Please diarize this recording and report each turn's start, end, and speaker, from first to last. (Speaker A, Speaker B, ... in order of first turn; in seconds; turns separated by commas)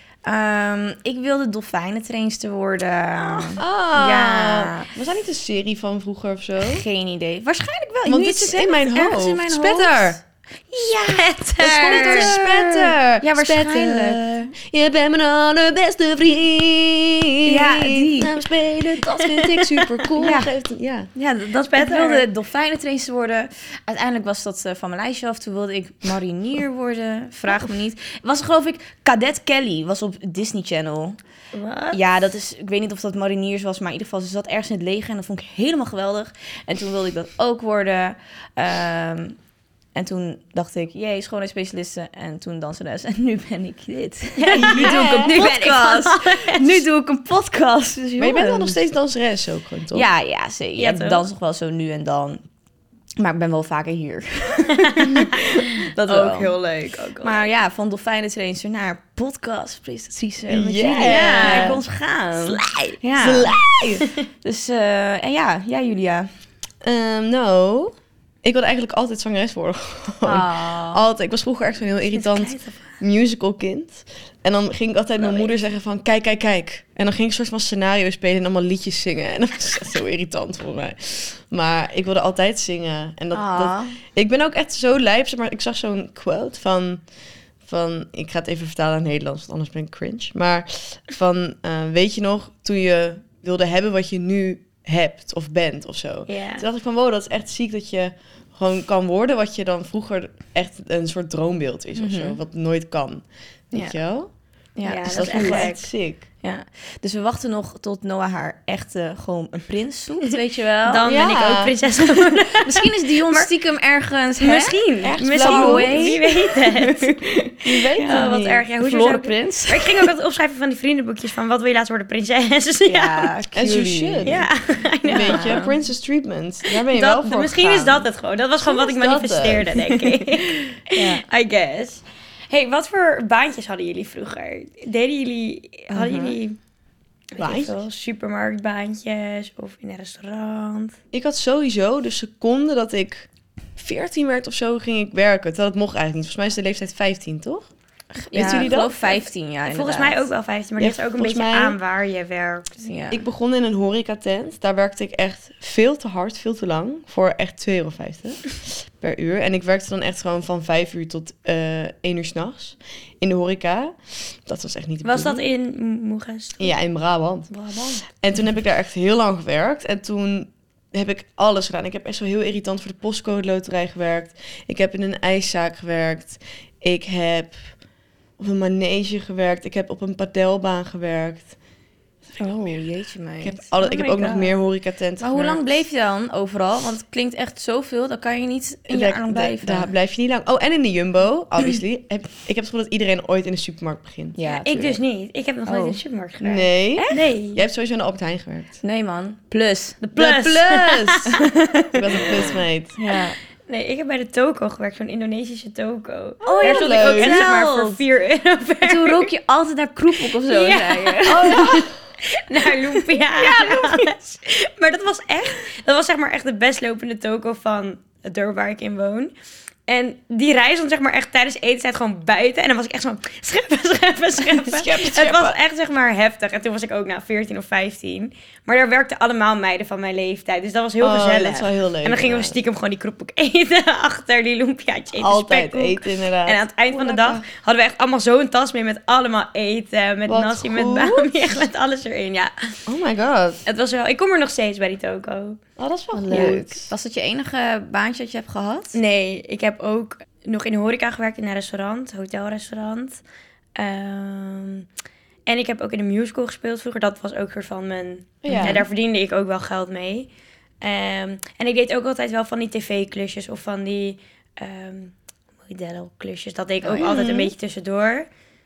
Speaker A: 0.2-4.9, Speaker B: 3.2-3.6, Speaker C: 3.6-6.8, Speaker A: 6.6-10.2, Speaker C: 8.1-10.2, Speaker A: 10.7-14.5, Speaker B: 10.8-12.3, Speaker C: 11.6-21.1, Speaker A: 17.5-18.4, Speaker B: 19.0-20.1, Speaker A: 20.2-20.5, Speaker A: 21.1-31.2, Speaker B: 21.6-22.3, Speaker B: 31.5-32.0, Speaker A: 31.9-39.4, Speaker A: 40.0-48.8, Speaker B: 44.4-46.8, Speaker C: 44.5-45.5, Speaker C: 48.2-50.1, Speaker A: 49.9-52.4, Speaker B: 50.8-51.2, Speaker A: 53.2-56.5, Speaker B: 54.8-55.1, Speaker C: 56.1-57.1, Speaker B: 56.2-57.4, Speaker A: 57.2-66.3, Speaker C: 60.5-61.8, Speaker B: 61.0-61.8, Speaker B: 62.4-63.0, Speaker C: 63.2-64.1, Speaker C: 66.8-87.0, Speaker A: 70.2-71.0, Speaker B: 72.2-73.0, Speaker B: 75.2-75.5, Speaker A: 83.3-84.0, Speaker C: 87.6-104.3, Speaker B: 96.3-96.7, Speaker A: 102.0-102.4, Speaker A: 104.8-105.8, Speaker B: 104.8-105.8, Speaker C: 105.1-106.3, Speaker A: 106.4-111.1, Speaker B: 110.8-113.5, Speaker C: 111.1-111.8, Speaker A: 112.6-120.1, Speaker B: 114.4-117.1, Speaker C: 115.0-116.4, Speaker C: 117.7-118.7, Speaker B: 118.0-123.3, Speaker A: 122.9-124.4, Speaker C: 123.5-124.5, Speaker B: 124.2-125.7, Speaker C: 125.0-128.1, Speaker A: 125.1-125.7, Speaker B: 126.7-136.6, Speaker C: 128.6-130.2, Speaker A: 130.9-131.2, Speaker A: 135.9-136.4, Speaker B: 137.3-141.0, Speaker C: 137.4-137.8, Speaker C: 141.1-147.7, Speaker A: 148.2-150.3, Speaker C: 148.3-149.0, Speaker B: 148.4-149.1, Speaker B: 149.7-152.9, Speaker C: 150.8-151.8, Speaker A: 152.8-153.2, Speaker C: 153.1-165.4, Speaker B: 165.0-166.7, Speaker C: 166.6-167.5, Speaker B: 167.5-168.0, Speaker C: 168.1-177.7, Speaker C: 178.4-181.6, Speaker C: 182.3-182.5, Speaker A: 182.4-183.8, Speaker C: 183.4-185.7, Speaker B: 183.8-184.5, Speaker A: 185.2-189.9, Speaker C: 188.9-194.4, Speaker A: 194.4-195.0, Speaker B: 194.5-197.6, Speaker A: 195.7-196.0, Speaker C: 196.4-198.8, Speaker A: 197.0-197.3, Speaker A: 198.8-200.0, Speaker B: 200.0-201.4, Speaker C: 200.2-201.4, Speaker A: 201.3-201.9, Speaker C: 201.9-203.0, Speaker B: 202.1-202.6, Speaker A: 203.0-203.4, Speaker B: 203.7-209.3, Speaker A: 206.4-208.0, Speaker C: 206.4-207.4, Speaker A: 208.8-211.6, Speaker B: 210.2-219.3, Speaker C: 211.3-211.9, Speaker A: 213.4-214.1, Speaker B: 219.9-242.8, Speaker C: 224.5-225.6, Speaker C: 231.0-232.6, Speaker C: 235.1-237.4, Speaker C: 240.3-241.6, Speaker C: 242.9-243.6, Speaker B: 243.7-245.6, Speaker C: 245.8-246.9, Speaker A: 246.1-249.0, Speaker B: 246.3-246.6, Speaker B: 248.9-253.2, Speaker B: 253.8-254.9, Speaker B: 255.5-260.3, Speaker C: 258.4-258.9, Speaker A: 258.5-258.8, Speaker B: 260.8-265.1, Speaker B: 265.6-268.3, Speaker C: 266.9-267.5